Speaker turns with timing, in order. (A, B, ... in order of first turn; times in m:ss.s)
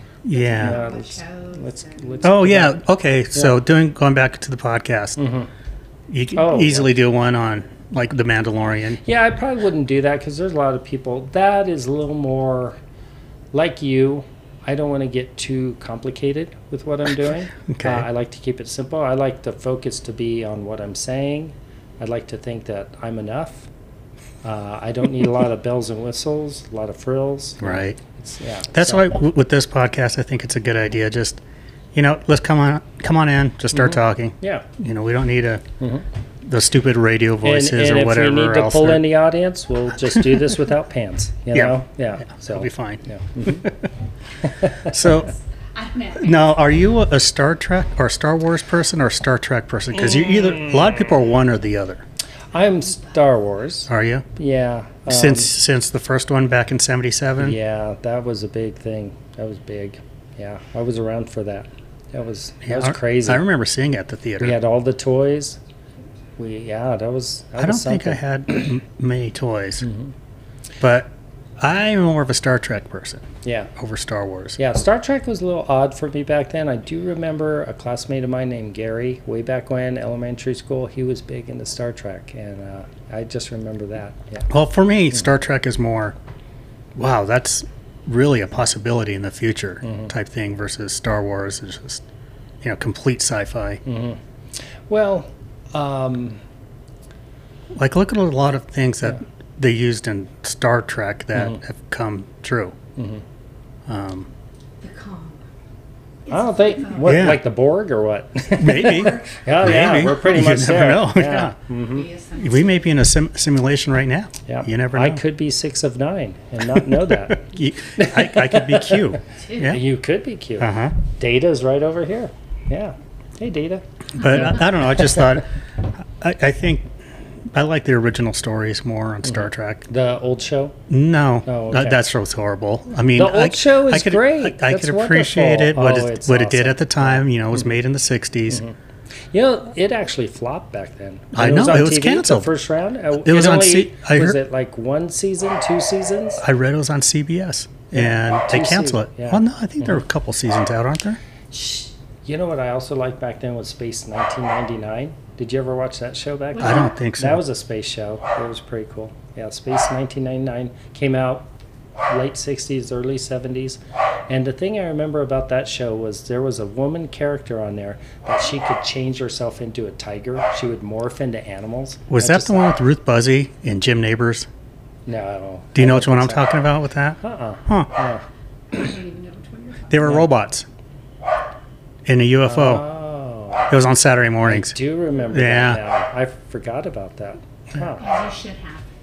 0:00.2-0:00.8 A
0:00.3-0:02.2 B
0:00.5-0:02.8 C
0:02.2-0:05.2 A
0:05.2-0:05.5 C
0:06.1-0:09.0 A
0:06.3-0:06.9 C
0:09.0-0:12.8 C
0:13.5-0:23.7 C
0:17.7-0:18.1 A
0:24.4-0:29.1 C
0:27.6-0:28.0 A
0:28.7-0:31.4 A
0:31.9-0:35.6 A
0:33.7-0:34.6 C
0:36.4-0:39.0 A
0:37.4-0:43.7 C
0:41.5-0:41.8 A
0:42.3-0:43.9 A
0:44.4-0:44.9 C
0:44.6-0:45.3 A
0:45.7-0:46.6 B
0:46.2-0:52.0 A
0:50.2-0:50.7 C
0:52.5-0:55.5 C
0:52.7-0:53.0 B
0:53.9-0:54.2 A
0:55.1-0:57.6 A
0:57.4-1:03.4 C
1:02.6-1:04.6 A
1:04.4-1:05.6 C
1:06.4-1:08.2 C
1:07.6-1:09.8 A
1:09.8-1:10.1 C
1:10.8-1:14.6 A
1:13.4-1:13.7 C
1:14.6-1:24.5 C
1:24.5-1:26.2 A
1:27.0-1:32.0 A
1:32.6-1:33.8 A
1:33.8-1:34.2 C
1:34.9-1:36.4 C
1:37.7-1:42.7 A
1:43.0-1:43.2 C
1:43.8-1:44.3 A
1:44.8-1:45.4 B
1:46.3-1:47.2 B
1:46.3-1:52.1 C
1:47.0-1:47.4 A
1:48.6-1:51.5 A
1:48.6-1:49.3 B
1:51.9-1:52.8 B
1:52.4-1:55.2 A
1:54.5-2:05.0 C
1:57.3-1:59.8 A
1:59.4-1:59.8 B
2:00.6-2:01.0 A
2:04.2-2:05.4 A
2:06.2-2:06.9 A
2:07.5-2:09.8 A
2:09.9-2:10.8 C
2:10.9-2:18.6 A
2:11.4-2:12.0 C
2:13.1-2:17.2 C
2:19.3-2:26.4 C
2:21.3-2:22.5 A
2:23.1-2:24.4 A
2:26.4-2:31.2 A
2:27.9-2:29.4 C
2:31.5-2:41.5 C
2:36.6-2:36.9 B
2:36.6-2:37.4 A
2:42.1-2:52.6 C
2:52.1-2:54.5 A
2:55.0-2:56.5 C
2:55.7-2:57.9 A
2:57.2-2:58.2 C
2:58.7-3:00.0 B
2:59.9-3:00.6 A
3:02.0-3:02.8 A
3:02.4-3:03.7 C
3:03.7-3:04.7 A
3:04.4-3:08.0 C
3:05.3-3:05.8 A
3:08.0-3:08.9 B